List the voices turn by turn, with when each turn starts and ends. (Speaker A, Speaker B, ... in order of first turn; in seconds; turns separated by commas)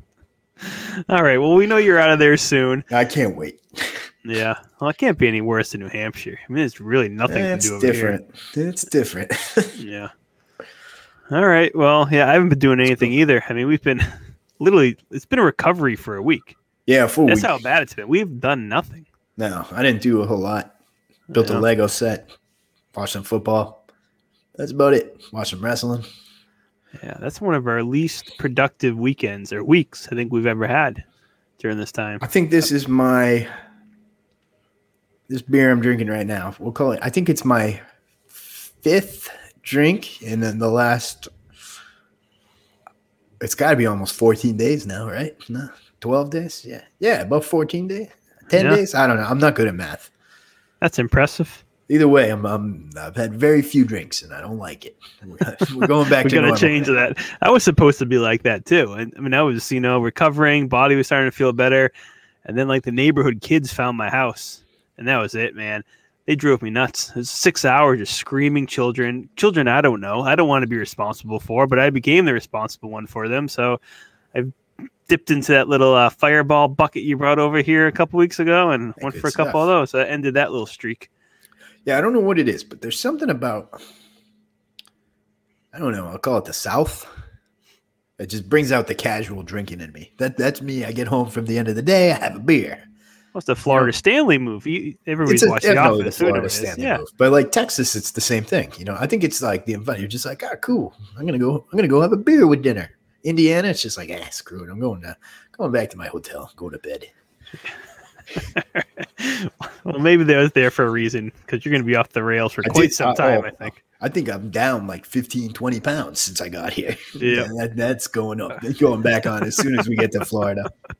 Speaker A: 0.6-2.9, Speaker B: 2.9-4.1, Speaker A: 4.2-8.2, Speaker B: 7.3-9.8, Speaker A: 9.8-10.1, Speaker A: 11.3-16.6, Speaker B: 12.8-13.1, Speaker B: 16.9-17.6, Speaker A: 17.2-19.1, Speaker B: 19.4-20.7, Speaker A: 21.3-21.6, Speaker B: 21.3-22.3, Speaker B: 22.9-23.8, Speaker B: 24.6-26.0, Speaker A: 26.9-31.0, Speaker A: 31.6-32.2, Speaker B: 32.2-33.5, Speaker B: 35.3-37.8, Speaker B: 38.3-41.3, Speaker B: 43.4-50.1, Speaker A: 48.5-48.8, Speaker A: 50.8-51.6, Speaker B: 51.9-56.9, Speaker A: 55.8-61.9, Speaker A: 62.4-73.8, Speaker A: 74.3-81.1, Speaker B: 79.0-79.7, Speaker B: 81.8-83.8, Speaker B: 85.7-87.1, Speaker B: 88.2-92.8, Speaker A: 93.3-97.0, Speaker B: 95.2-107.1, Speaker A: 108.3-113.8, Speaker B: 112.6-120.7, Speaker A: 117.2-117.5